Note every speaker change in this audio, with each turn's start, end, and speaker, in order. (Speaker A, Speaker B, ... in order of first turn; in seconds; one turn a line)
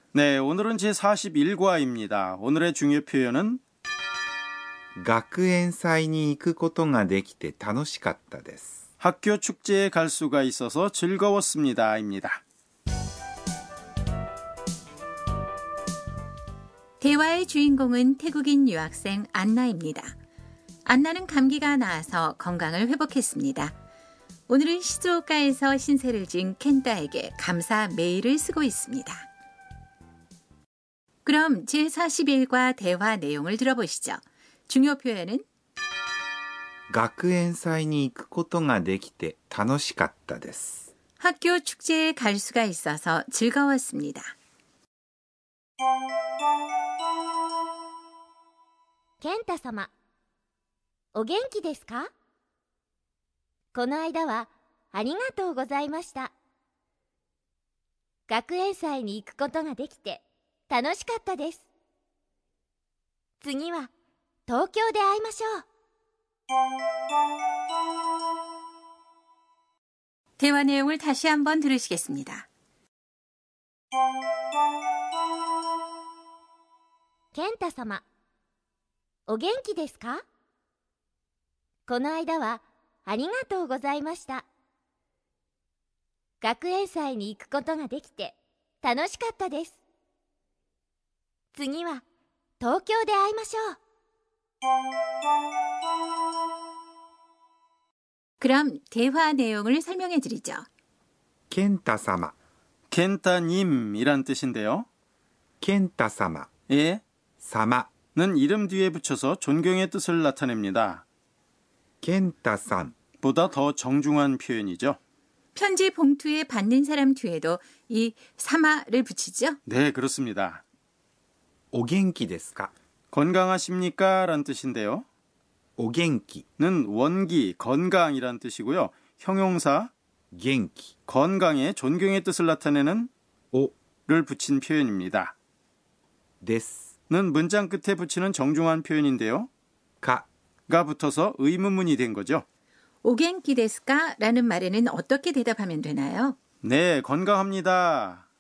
Speaker A: 0.1-3.6
Speaker B: 5.0-8.8
Speaker A: 9.0-12.4
Speaker C: 17.0-20.1
Speaker C: 20.9-23.7
Speaker C: 24.5-29.2
Speaker C: 31.2-35.4
Speaker B: 36.9-40.9
Speaker C: 41.2-44.3
Speaker D: 49.2-49.9
Speaker D: 51.1-52.1
Speaker D: 53.7-56.3
Speaker D: 58.3-61.7
Speaker D: 63.4-63.9
Speaker D: 64.5-65.7
Speaker C: 70.4-72.5
Speaker D: 77.3-78.0
Speaker D: 79.3-80.2
Speaker D: 81.9-84.5
Speaker D: 86.4-89.8
Speaker D: 91.5-92.0
Speaker D: 92.6-93.8
Speaker C: 98.4-100.6
Speaker B: 101.5-102.3
Speaker A: 102.9-104.9
Speaker B: 105.6-106.5
Speaker A: 106.7-107.0
Speaker B: 107.4-107.9
Speaker A: 108.2-111.0
Speaker B: 112.0-113.0
Speaker A: 113.2-115.0
Speaker C: 115.5-119.6
Speaker A: 119.7-120.6
Speaker B: 121.7-122.7
Speaker A: 123.1-125.0
Speaker B: 125.8-126.5
Speaker A: 126.6-129.9
Speaker B: 130.3-130.9
Speaker A: 131.1-133.1
Speaker A: 134.1-135.3
Speaker B: 136.4-136.9
Speaker A: 137.1-139.5
Speaker B: 140.0-140.3
Speaker A: 140.7-142.4
Speaker C: 143.0-146.4
Speaker A: 146.6-148.2